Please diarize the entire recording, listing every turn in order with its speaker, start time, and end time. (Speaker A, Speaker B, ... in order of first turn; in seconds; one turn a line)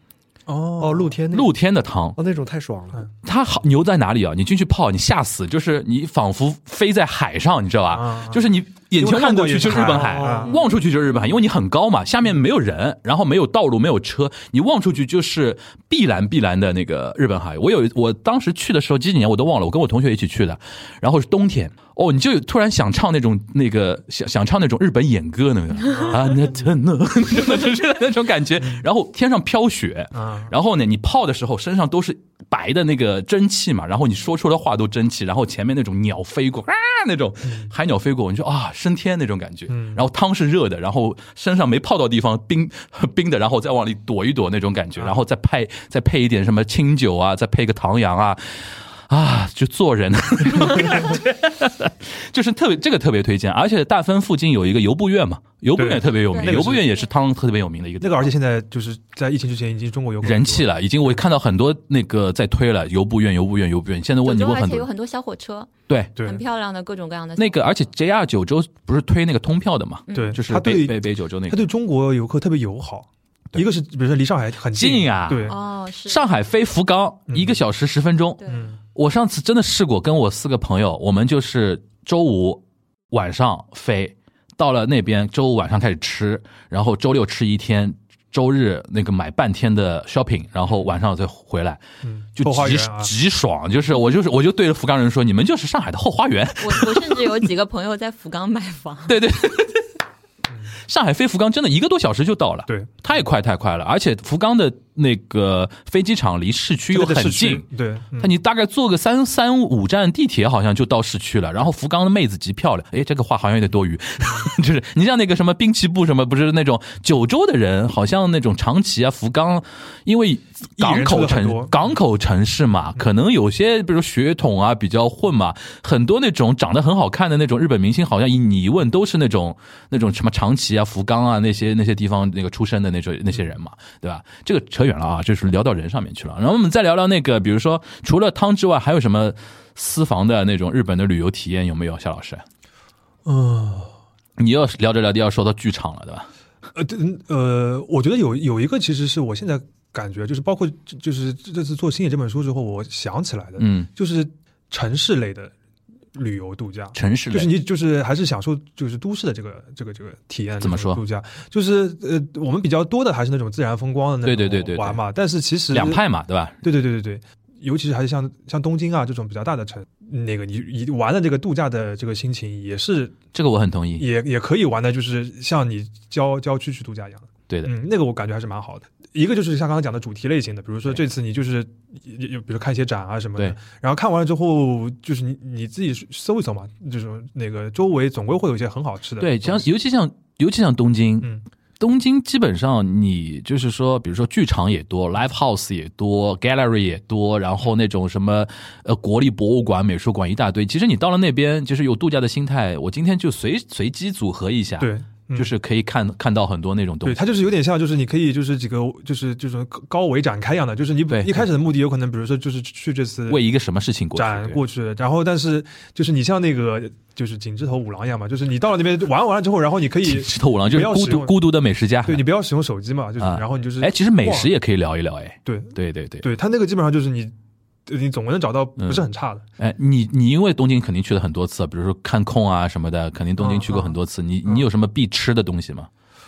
Speaker A: 0.5-1.1
Speaker B: 0.8-1.5
Speaker C: 1.3-2.2
Speaker B: 2.1-3.0
Speaker C: 3.2-58.3
Speaker A: 7.9-8.4
Speaker A: 9.0-10.5
Speaker B: 9.8-10.5
Speaker D: 10.5-10.7
Speaker A: 25.8-26.6
Speaker A: 28.6-28.9
Speaker A: 30.1-30.5
Speaker A: 37.4-37.7
Speaker A: 39.7-40.0
Speaker A: 45.0-45.2
Speaker A: 50.6-51.0
Speaker A: 55.8-56.9
Speaker D: 56.3-56.6
Speaker A: 58.0-61.2
Speaker C: 60.2-64.9
Speaker D: 64.2-65.7
Speaker C: 65.9-66.2
Speaker A: 66.2-66.4
Speaker D: 66.2-67.6
Speaker C: 67.4-71.7
Speaker D: 70.1-70.4
Speaker A: 70.1-75.6
Speaker C: 74.7-75.5
Speaker D: 75.5-76.2
Speaker C: 76.1-78.4
Speaker A: 77.3-77.6
Speaker D: 78.4-78.7
Speaker A: 78.5-78.8
Speaker C: 78.9-91.8
Speaker A: 92.0-93.1
Speaker C: 92.4-97.5
Speaker D: 96.6-99.2
Speaker C: 99.1-99.9
Speaker C: 100.9-107.7
Speaker A: 102.7-103.2
Speaker A: 106.9-108.3
Speaker C: 108.2-142.4
Speaker A: 114.2-114.5
Speaker A: 120.8-122.0
Speaker A: 143.2-143.9
Speaker C: 144.4-146.3
Speaker A: 146.7-155.5
Speaker C: 153.6-153.9
Speaker A: 156.1-166.0
Speaker C: 156.9-157.5
Speaker C: 160.6-161.0
Speaker C: 164.2-165.0
Speaker C: 165.7-166.6
Speaker A: 166.6-173.2
Speaker C: 173.3-174.1
Speaker A: 174.0-189.7
Speaker C: 189.2-207.2
Speaker A: 204.8-205.5
Speaker A: 207.0-213.4
Speaker C: 211.1-211.4
Speaker C: 213.3-214.6
Speaker A: 214.2-221.3
Speaker C: 220.0-222.2
Speaker A: 222.0-224.5
Speaker C: 223.2-226.2
Speaker A: 225.4-227.3
Speaker A: 227.9-229.4
Speaker C: 228.8-229.1
Speaker C: 229.6-235.9
Speaker A: 233.4-234.7